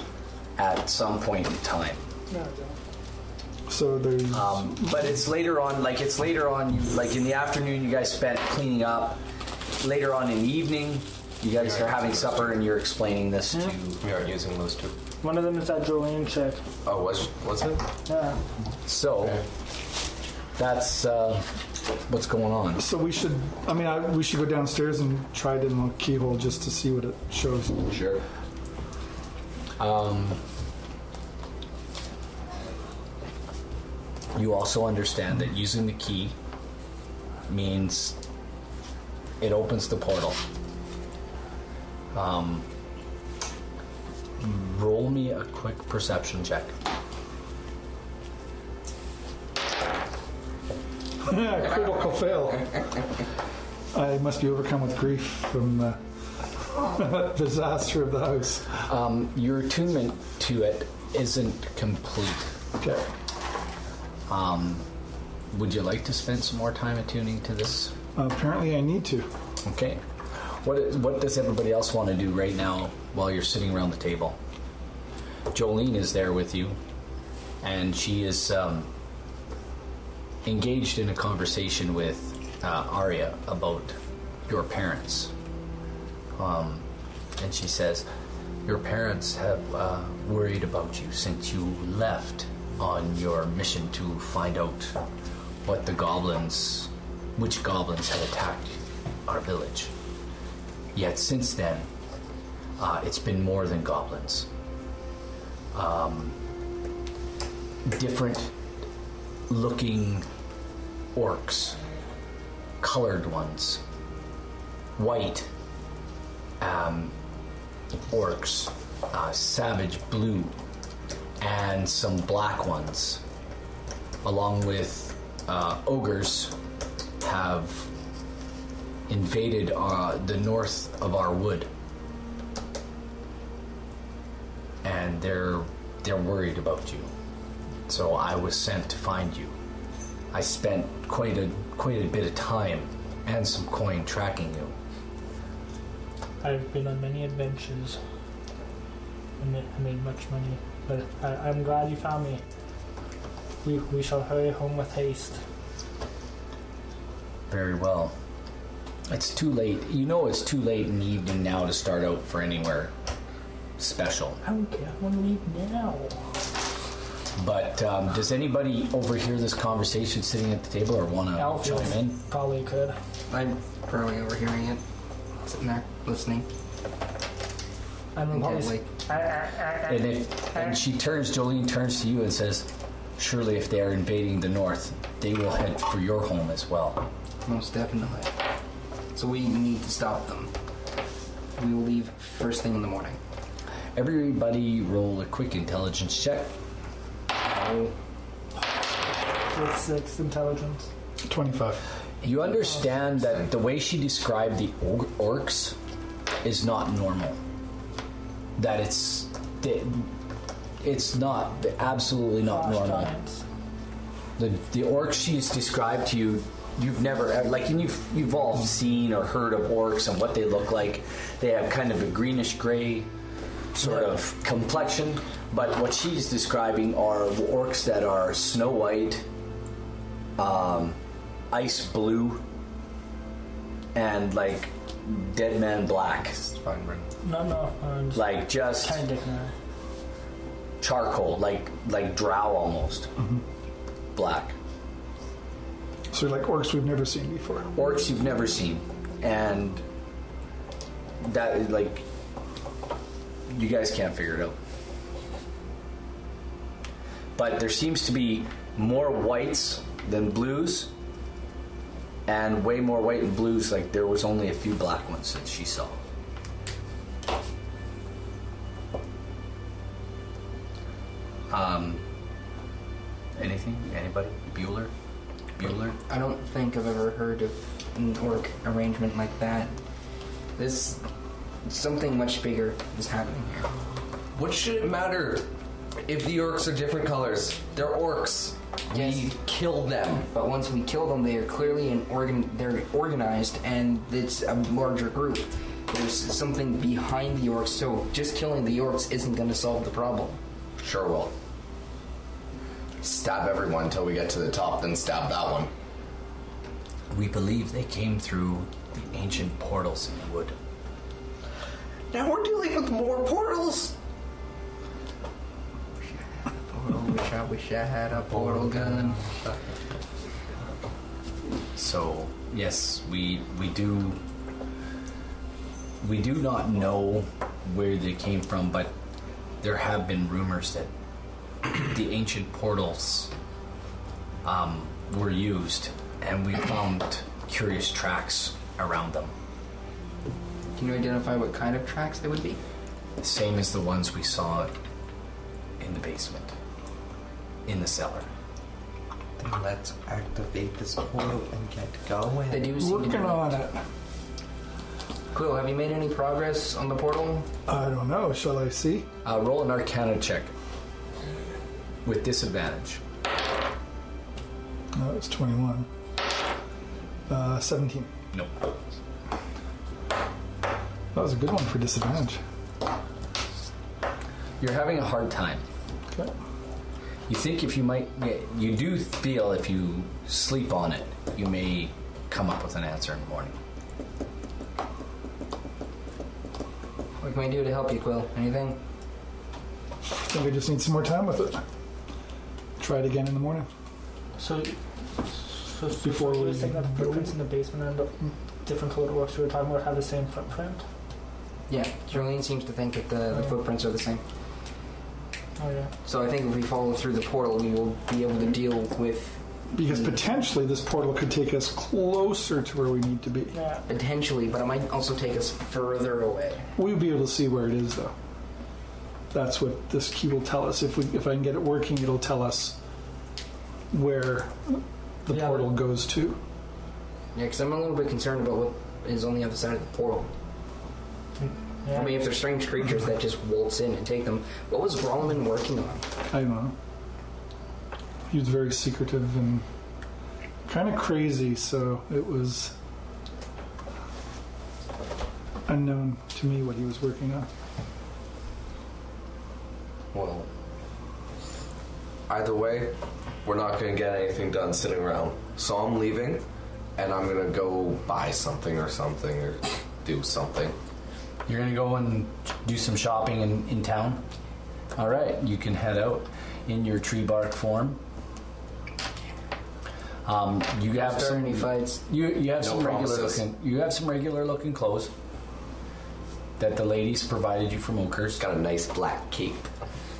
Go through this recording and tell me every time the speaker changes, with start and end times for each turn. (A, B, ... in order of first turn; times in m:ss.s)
0:00.6-0:02.0 A
0:02.3-0:02.8 B
0:03.7-0:05.1 C
0:04.3-0:09.2 A
0:09.8-0:14.0 A
0:11.5-0:12.6 D
0:14.0-0:14.9 D
0:15.2-0:16.6 B
0:16.8-0:17.8 D
0:18.1-0:18.4 B
0:18.8-0:19.4 A
0:20.6-0:21.5 A
0:22.1-0:22.8 A
0:22.8-0:27.9 C
0:27.9-0:28.2 A
0:29.8-0:30.4 A
0:34.3-0:36.3 A
0:37.5-0:38.2 A
0:39.4-0:40.4 A
0:42.1-0:42.6 A
0:44.4-0:46.7 A
0:51.2-0:52.8 C
0:53.9-0:56.0 C
0:56.7-0:58.7 C
0:58.8-1:02.5 A
1:02.8-1:03.1 C
1:04.3-1:04.8 A
1:05.5-1:07.9 A
1:08.1-1:09.3 C
1:09.6-1:14.4 A
1:15.5-1:16.8 A
1:17.6-1:18.9 A
1:20.4-1:25.3 A
1:26.4-1:26.8 A
1:27.4-1:28.0 A
1:28.6-1:35.0 A
1:35.6-1:39.9 A
1:40.9-1:41.9 A
1:42.8-1:44.5 A
1:45.7-1:46.4 A
1:47.8-1:48.5 A
1:49.5-1:50.2 A
1:51.1-1:51.8 A
1:52.8-1:53.8 A
1:55.0-1:55.5 A
1:56.6-1:57.1 A
1:58.1-2:00.5 A
2:01.4-2:03.2 A
2:04.2-2:06.5 A
2:07.2-2:07.9 A
2:09.1-2:11.7 A
2:14.8-2:17.1 A
2:17.9-2:19.5 A
2:20.3-2:24.7 A
2:26.4-2:28.0 B
2:29.4-2:32.4 B
2:33.6-2:35.4 B
2:37.5-2:38.1 A
2:39.1-2:42.9 A
2:43.8-2:44.4 A
2:44.4-2:46.3 B
2:47.4-2:52.2 A
2:51.4-2:53.0 B
2:53.3-2:54.8 E
2:55.4-2:56.5 E
2:58.1-3:00.8 B
2:58.3-2:58.9 E
2:59.9-3:07.0 A
3:07.4-3:08.3 E
3:09.1-3:10.5 E
3:11.6-3:13.2 E
3:14.0-3:16.5 A
3:17.4-3:17.9 E
3:19.5-3:20.9 B
3:21.2-3:21.8 C
3:22.2-3:25.8 A
3:26.4-3:27.4 A
3:28.6-3:30.1 A
3:30.8-3:33.1 A
3:32.5-3:33.4 B
3:34.4-3:43.1 A
3:43.7-3:49.2 A
3:50.4-3:51.0 A
3:51.5-3:52.4 A
3:53.9-3:56.4 A
3:57.2-3:59.5 B
3:58.1-3:59.0 A
4:00.8-4:03.1 A
4:04.1-4:04.5 A
4:06.1-4:07.7 C
4:07.7-4:09.8 A
4:11.2-4:12.0 A
4:13.5-4:14.6 A
4:17.4-4:20.9 A
4:22.2-4:26.0 A
4:31.5-4:32.0 A
4:33.4-4:34.9 A
4:35.6-4:36.0 A
4:36.1-4:39.7 E
4:40.6-4:41.0 E
4:41.6-4:43.7 E
4:44.4-4:45.5 D
4:46.0-4:50.3 D
4:48.9-4:49.3 E
4:50.3-5:00.4 E
5:00.8-5:01.3 D
5:03.0-5:05.7 D
5:07.1-5:10.6 A
5:12.1-5:13.9 D
5:16.6-5:19.2 E
5:21.7-5:24.2 A
5:26.0-5:28.9 A
5:29.6-5:30.9 A
5:31.6-5:33.3 A
5:34.4-5:39.3 A
5:40.8-5:42.6 E
5:43.2-5:44.7 A
5:45.8-5:46.5 A
5:47.6-5:48.3 A
5:49.4-5:52.8 F
5:52.5-5:53.6 E
5:52.7-5:53.8 C
5:55.3-5:57.5 E
5:57.7-5:59.1 C
5:59.2-6:00.5 A
6:02.0-6:03.0 A
6:04.9-6:05.9 C
6:07.3-6:08.1 C
6:08.3-6:08.6 A
6:11.1-6:12.4 C
6:14.6-6:15.6 A
6:17.3-6:23.6 A
6:27.2-6:28.8 E
6:30.0-6:31.6 C
6:32.8-6:33.7 C
6:34.4-6:38.1 B
6:36.0-6:37.3 C
6:38.6-6:40.8 B
6:41.7-6:44.2 E
6:45.6-6:45.9 B
6:46.0-6:50.2 E
6:49.7-6:53.6 C
6:53.5-6:53.8 B
6:53.9-6:56.7 E
6:56.8-6:58.1 C
6:59.3-7:02.8 C
7:03.9-7:06.4 C
7:05.3-7:05.7 B
7:07.3-7:10.3 E
7:11.4-7:12.3 B
7:11.9-7:16.0 E
7:16.3-7:16.7 C
7:18.3-7:19.6 C
7:20.6-7:22.8 C
7:25.6-7:27.5 C
7:30.1-7:30.5 D
7:32.3-7:36.4 D
7:37.0-7:40.8 D
7:41.5-7:44.2 A
7:44.9-7:48.0 A
7:50.2-7:55.1 A
7:50.9-7:52.0 E
7:52.6-7:53.4 D
7:56.6-7:58.4 A
7:58.4-7:59.7 D